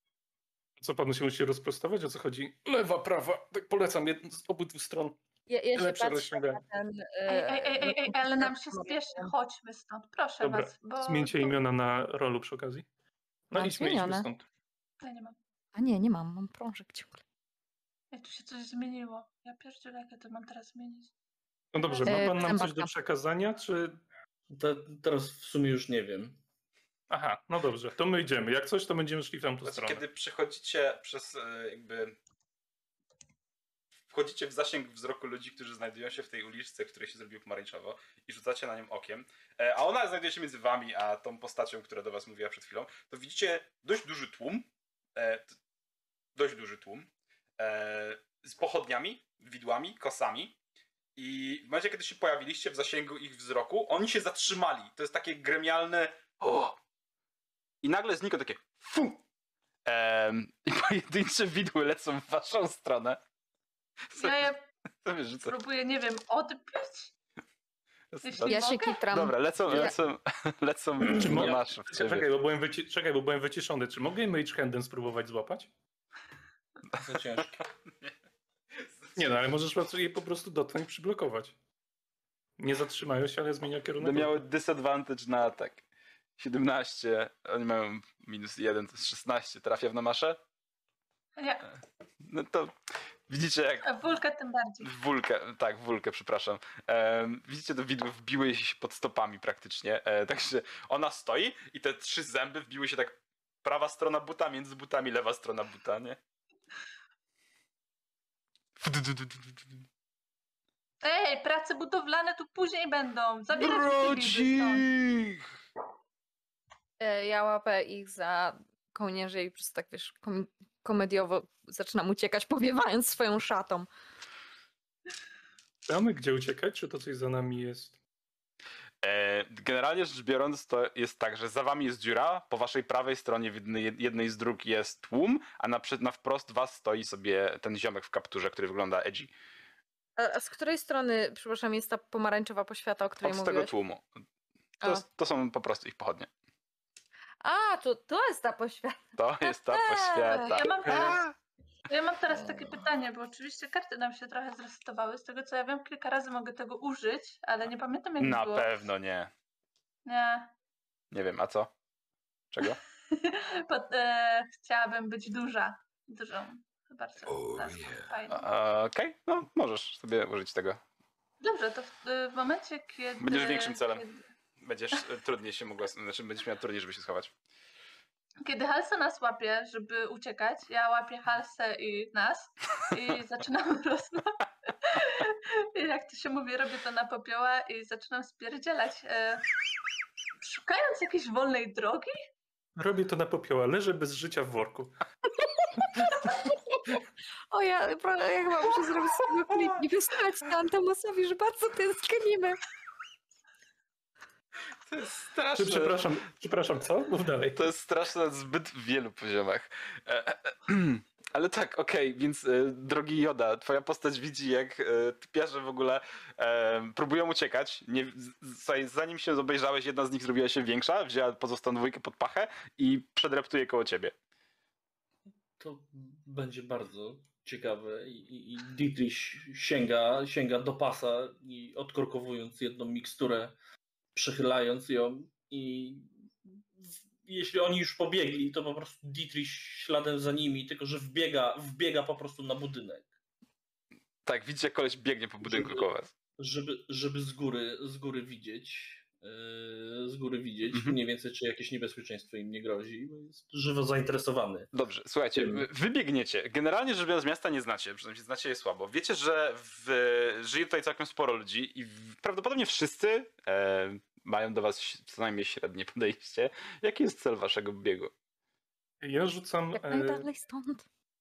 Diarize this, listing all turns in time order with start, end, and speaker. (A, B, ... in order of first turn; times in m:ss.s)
0:00.8-0:05.2 A
0:05.5-0:09.3 B
0:05.7-0:06.6 A
0:07.3-0:11.6 C
0:10.4-0:12.9 A
0:13.5-0:14.4 A
0:13.5-0:14.3 B
0:15.0-0:15.4 C
0:15.7-0:17.2 B
0:18.1-0:21.1 C
0:21.7-0:24.0 A
0:21.8-0:22.6 C
0:22.0-0:22.9 B
0:24.5-0:26.4 D
0:27.1-0:30.0 A
0:29.6-0:32.2 E
0:34.1-0:45.5 E
0:46.3-0:50.6 E
0:51.2-0:56.8 E
0:57.8-0:59.2 E
0:59.8-1:03.2 E
1:04.1-1:04.5 E
1:04.2-1:04.6 C
1:05.0-1:05.5 E
1:05.5-1:07.1 C
1:08.1-1:12.3 E
1:08.2-1:09.0 C
1:08.4-1:10.0 B
1:11.0-1:11.6 D
1:11.1-1:15.7 A
1:16.9-1:17.6 D
1:18.8-1:19.2 E
1:19.2-1:21.5 A
1:22.6-1:24.4 A
1:24.0-1:25.8 E
1:26.4-1:30.4 E
1:31.4-1:31.6 C
1:32.2-1:32.7 E
1:33.3-1:33.9 E
1:33.8-1:34.9 C
1:34.8-1:46.2 E
1:48.8-1:49.6 E
1:51.0-1:54.9 C
1:53.6-1:55.5 E
1:57.0-2:03.9 B
2:05.9-2:07.9 A
2:09.0-2:19.3 E
2:20.2-2:23.7 B
2:23.2-2:24.1 E
2:24.8-2:26.3 E
2:27.4-2:31.2 B
2:29.2-2:31.3 E
2:30.4-2:31.3 C
2:31.9-2:38.7 C
2:38.2-2:39.3 E
2:40.0-2:40.5 C
2:41.1-2:41.7 E
2:42.5-2:42.8 E
2:43.1-2:48.4 C
2:47.7-2:50.8 E
2:51.4-2:54.2 C
2:53.2-2:54.0 E
2:54.6-2:57.3 E
2:58.4-3:09.5 C
3:10.4-3:12.2 C
3:12.8-3:15.0 A
3:17.5-3:22.6 B
3:24.8-3:26.1 E
3:25.5-3:27.6 A
3:27.5-3:44.1 E
3:45.6-3:53.5 D
3:54.1-4:03.1 D
4:04.2-4:06.1 E
4:05.4-4:05.9 D
4:06.4-4:14.7 D
4:10.7-4:11.0 E
4:14.7-4:28.1 E
4:15.3-4:15.6 D
4:29.0-4:30.2 A
4:29.7-4:30.8 B